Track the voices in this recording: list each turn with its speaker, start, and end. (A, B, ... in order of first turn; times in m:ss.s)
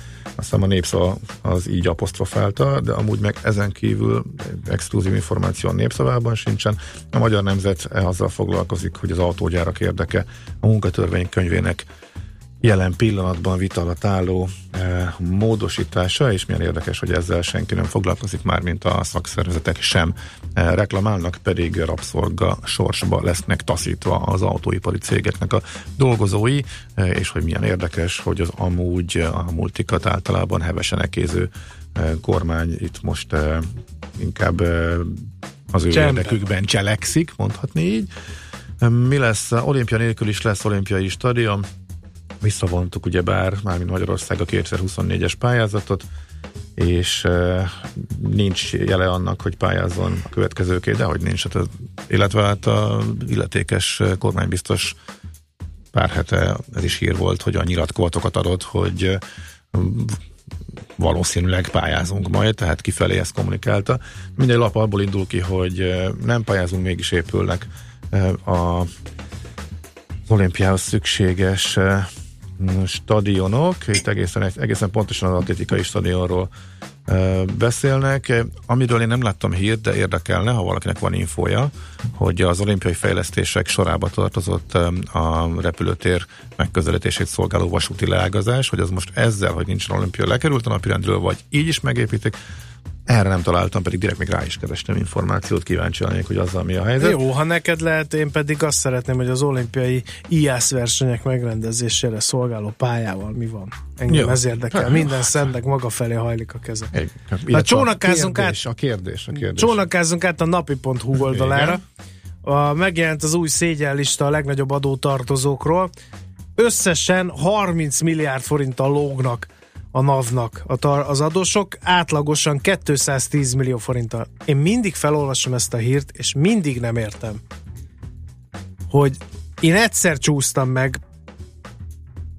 0:00.4-0:11.8 A
0:12.6-0:38.1 A
0:35.9-0:36.4 B
0:38.8-0:41.7 A
0:42.4-0:46.0 A
0:46.8-0:55.0 A
0:55.9-0:59.2 A
0:59.7-1:00.2 A
1:01.0-1:08.9 A
1:10.3-1:16.5 A
1:17.1-1:32.4 A
1:33.1-1:37.2 A
1:37.0-1:46.9 B
1:44.1-1:45.5 A
1:46.9-1:49.8 A
1:47.5-1:48.6 B
1:49.3-1:51.8 B
1:51.1-1:51.8 A
1:52.4-1:55.9 B
1:56.6-2:07.4 B
2:08.9-2:11.0 B